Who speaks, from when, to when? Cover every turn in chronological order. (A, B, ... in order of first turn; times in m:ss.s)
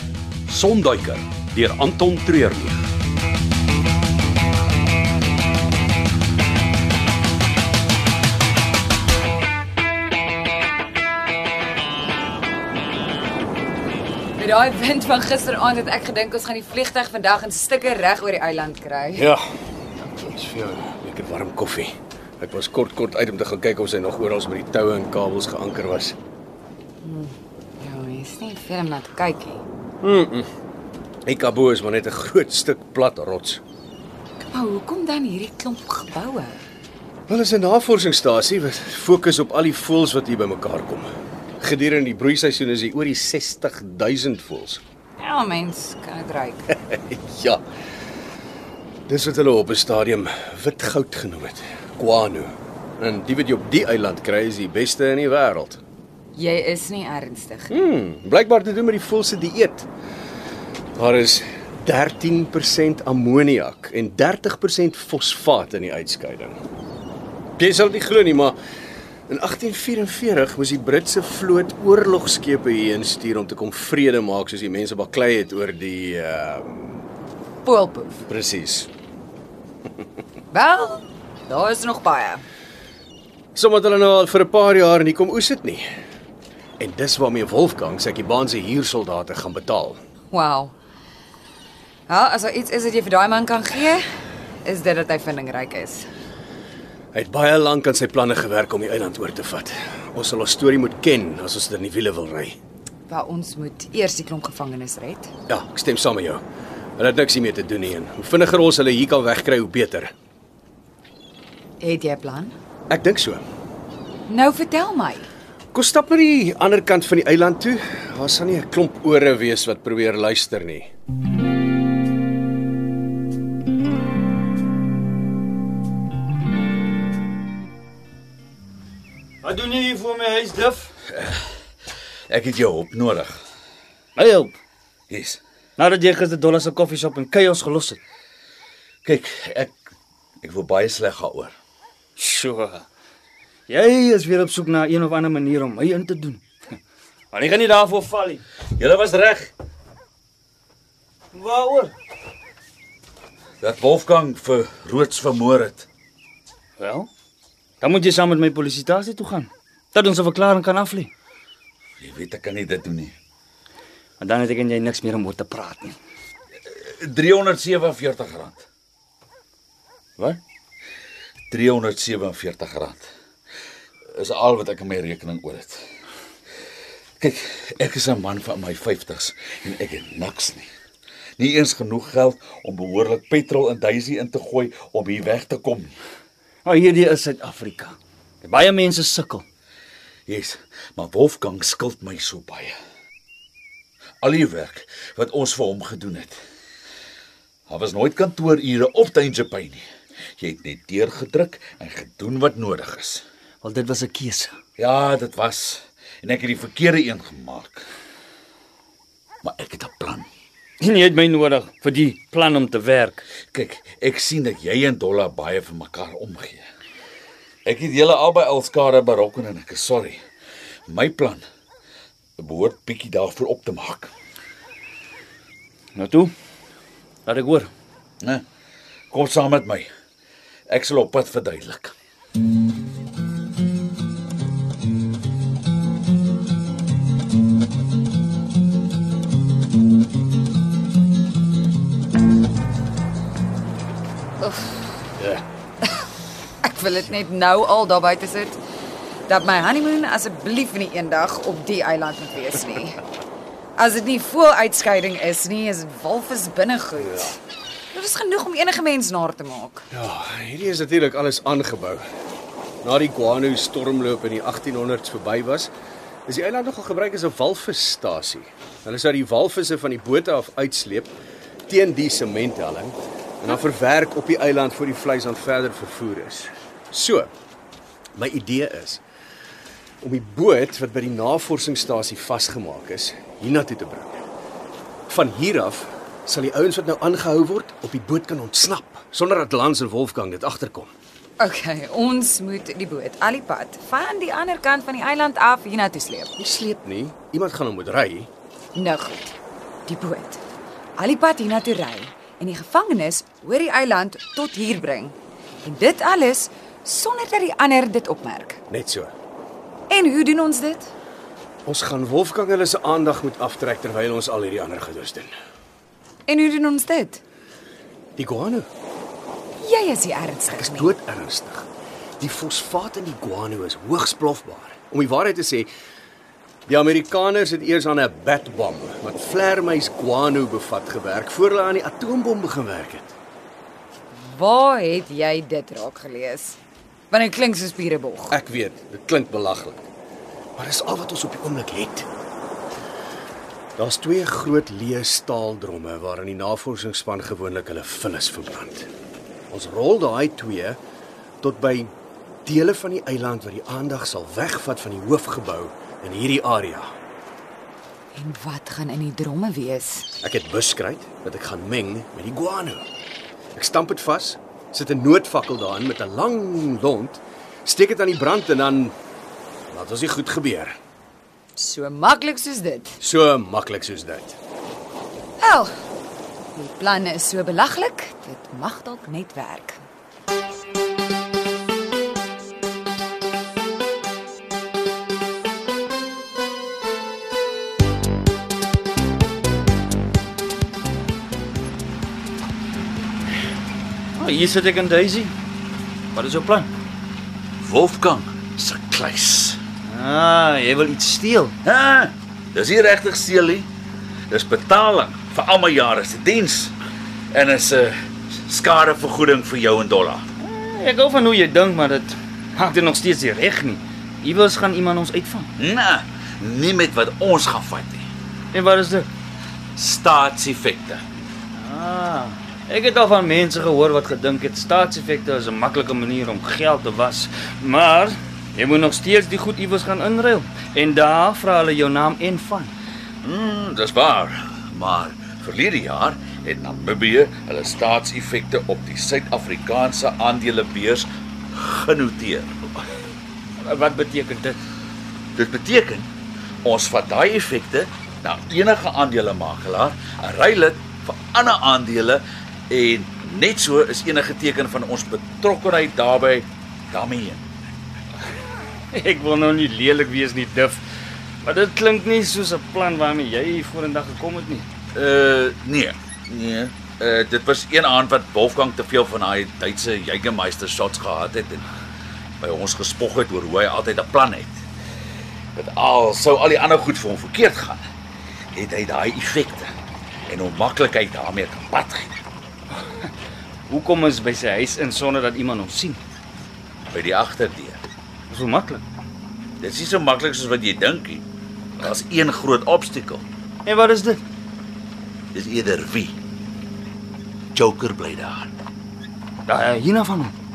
0:00.5-0:02.8 A
0:14.4-0:19.3 B
0:19.2-0:19.4 C
0:20.0-0:26.2 C
0:27.0-0:29.6 B
0:30.0-0:30.5 C
0:31.2-0:33.6 C
0:34.4-0:36.6 B
0:37.3-0:41.1 C
0:41.6-0:44.8 C
0:45.2-0:46.8 B
0:46.8-0:47.6 C
0:49.1-0:55.8 C
0:56.3-0:57.7 B
0:57.7-0:59.9 C
1:01.0-1:06.6 C
1:07.6-1:08.6 C
1:09.3-1:17.0 C
1:17.6-1:18.2 B
1:18.3-1:18.9 C
1:20.5-1:22.4 B
1:23.5-1:25.9 C
1:26.8-1:30.0 C
1:30.3-1:30.7 B
1:32.1-1:34.0 B
1:34.6-1:36.1 B
1:37.1-1:42.6 C
1:43.1-1:45.3 B
1:45.5-1:46.4 C
1:47.0-1:50.1 C
1:51.8-1:52.5 B
1:52.9-1:53.4 C
1:54.3-1:55.3 B
1:55.7-2:00.9 C
2:09.4-2:10.9 D
2:11.1-2:11.5 E
2:12.3-2:13.4 E
2:14.2-2:14.5 D
2:15.1-2:15.4 E
2:15.8-2:18.0 D
2:19.0-2:19.7 E
2:20.4-2:21.5 E
2:22.2-2:22.8 D
2:23.7-2:26.4 D
2:27.3-2:28.4 D
2:28.8-2:29.5 E
2:31.3-2:31.9 D
2:33.6-2:35.9 E
2:36.8-2:37.1 D
2:37.8-2:41.1 D
2:42.0-2:43.1 E
2:44.2-2:46.0 D
2:46.7-2:48.6 E
2:51.5-2:53.0 E
2:54.2-2:55.8 E
2:57.2-3:00.7 E
3:01.4-3:05.9 E
3:06.6-3:09.4 D
3:10.3-3:12.7 E
3:14.2-3:16.4 E
3:17.7-3:19.8 E
3:20.4-3:23.2 E
3:23.6-3:24.5 D
3:24.8-3:27.8 E
3:29.4-3:30.3 E
3:30.8-3:33.2 D
3:33.5-3:36.6 E
3:37.6-3:40.2 E
3:40.9-3:41.4 E
3:42.4-3:44.1 E
3:45.9-3:46.3 D
3:47.2-3:47.7 D
3:49.1-3:49.9 E
3:50.7-3:51.9 E
4:04.4-4:04.8 B
4:06.6-4:08.6 B
4:09.3-4:13.0 B
4:13.8-4:17.4 B
4:17.0-4:17.3 C
4:17.9-4:19.8 B
4:19.9-4:22.0 C
4:22.8-4:25.7 C
4:26.2-4:31.2 C
4:31.7-4:37.3 C
4:38.2-4:39.0 C
4:40.0-4:44.2 C
4:45.1-4:50.9 C
4:51.4-4:56.3 B
4:56.4-4:58.3 C
4:58.7-4:59.4 B
4:59.9-5:00.4 B
5:01.0-5:08.6 B
5:08.7-5:09.1 C
5:09.9-5:10.9 B
5:11.6-5:15.3 C
5:16.3-5:17.2 B
5:18.2-5:18.7 C
5:19.6-5:20.9 B
5:20.5-5:21.7 C
5:22.2-5:25.7 C
5:26.7-5:33.2 C
5:34.2-5:36.6 B
5:37.1-5:38.4 B
5:38.3-5:39.9 C
5:40.6-5:42.1 C
5:43.8-5:48.9 C
5:49.5-5:50.8 C
5:51.4-5:51.9 C
5:52.4-5:56.9 C
5:58.1-6:00.1 B
6:00.2-6:02.9 C
6:03.5-6:09.0 C
6:09.7-6:10.8 C
6:11.6-6:13.0 B
6:13.0-6:14.4 C
6:15.4-6:15.7 B
6:16.5-6:19.8 B
6:34.2-6:35.3 D
6:36.1-6:36.7 D
6:37.6-6:39.6 E
6:39.9-6:41.5 D
6:41.6-6:43.7 E
6:44.3-6:46.7 E
6:47.3-6:50.2 E
6:50.4-6:55.5 D
6:55.6-6:58.0 E
6:58.5-6:59.1 D
6:59.8-7:01.0 E
7:01.5-7:12.7 D
7:13.2-7:22.7 E
7:23.6-7:24.6 D
7:25.4-7:26.1 E
7:26.6-7:37.4 E
7:38.9-7:40.8 D
7:41.4-7:44.6 D
7:44.9-7:51.6 E
7:52.4-7:54.6 E
7:55.5-7:57.8 E
7:58.5-7:59.7 E
8:00.3-8:02.2 E
8:03.7-8:06.0 D
8:06.9-8:07.8 E
8:08.3-8:08.8 D
8:09.6-8:11.2 E
8:11.8-8:13.2 E
8:13.6-8:14.2 D
8:15.3-8:16.2 E
8:17.5-8:18.5 E
8:19.5-8:20.3 D